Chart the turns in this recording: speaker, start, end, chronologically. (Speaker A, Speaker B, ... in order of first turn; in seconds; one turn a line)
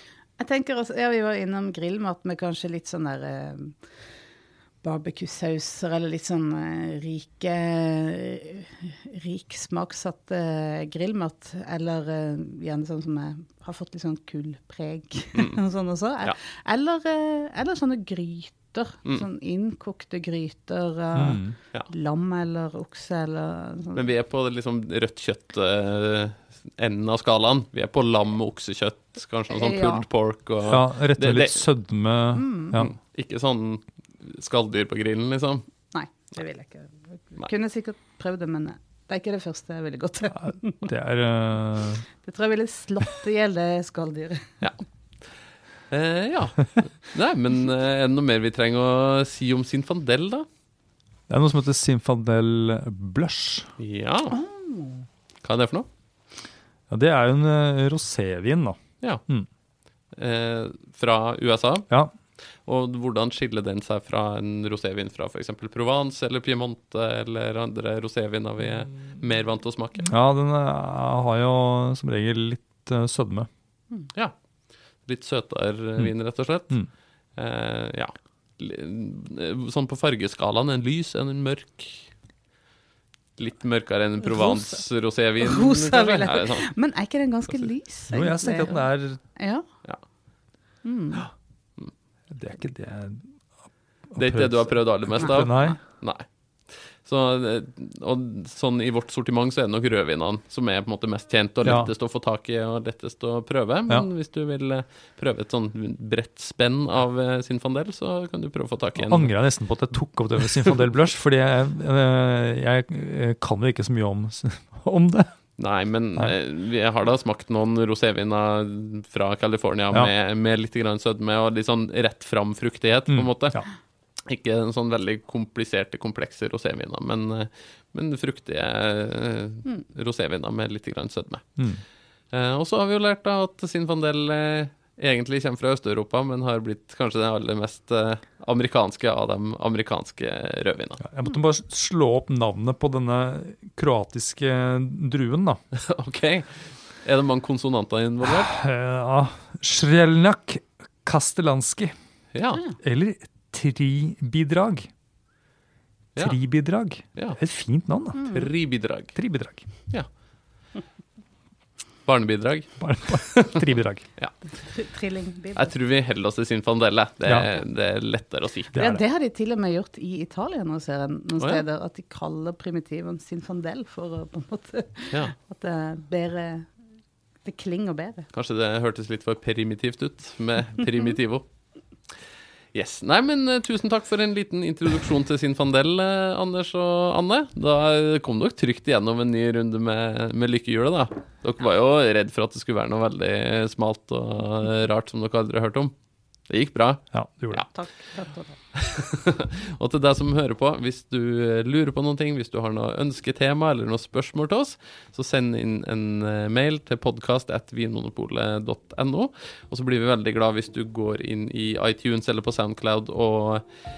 Speaker A: 0.4-3.7
Speaker A: 4.8-24.1
Speaker B: 21.1-21.6
Speaker C: 23.9-31.6
Speaker A: 29.5-30.0
Speaker B: 30.6-32.9
Speaker A: 32.3-32.8
Speaker C: 32.8-35.6
Speaker A: 35.9-40.8
Speaker B: 40.3-42.0
Speaker A: 42.2-44.5
Speaker C: 45.9-50.4
Speaker B: 51.3-53.7
Speaker C: 53.8-54.4
Speaker A: 54.3-55.0
Speaker C: 55.4-55.9
Speaker B: 56.9-59.5
Speaker C: 60.1-61.9
Speaker C: 62.6-70.1
Speaker B: 70.0-73.5
Speaker C: 75.0-76.7
Speaker C: 77.4-82.1
Speaker C: 83.4-86.7
Speaker A: 84.2-84.8
Speaker A: 85.4-89.6
Speaker B: 88.1-89.2
Speaker A: 90.8-91.3
Speaker B: 92.3-93.3
Speaker B: 94.1-95.8
Speaker C: 94.2-96.2
Speaker C: 97.0-109.3
Speaker B: 101.6-101.9
Speaker B: 109.0-115.3
Speaker C: 115.6-123.6
Speaker B: 123.1-123.7
Speaker C: 124.3-131.4
Speaker C: 132.3-141.0
Speaker B: 141.0-145.6
Speaker C: 145.7-146.5
Speaker C: 147.0-148.5
Speaker B: 148.2-151.9
Speaker C: 152.3-152.6
Speaker B: 152.8-154.9
Speaker B: 156.2-158.5
Speaker A: 158.2-158.5
Speaker C: 158.3-159.2
Speaker B: 159.1-159.7
Speaker C: 162.1-163.6
Speaker B: 162.8-164.0
Speaker A: 164.6-165.7
Speaker C: 165.5-168.8
Speaker B: 168.7-169.0
Speaker A: 168.7-176.7
Speaker A: 177.4-178.3
Speaker C: 178.3-181.4
Speaker C: 182.7-195.9
Speaker C: 196.5-197.7
Speaker B: 197.1-197.6
Speaker A: 197.7-198.6
Speaker C: 198.7-213.6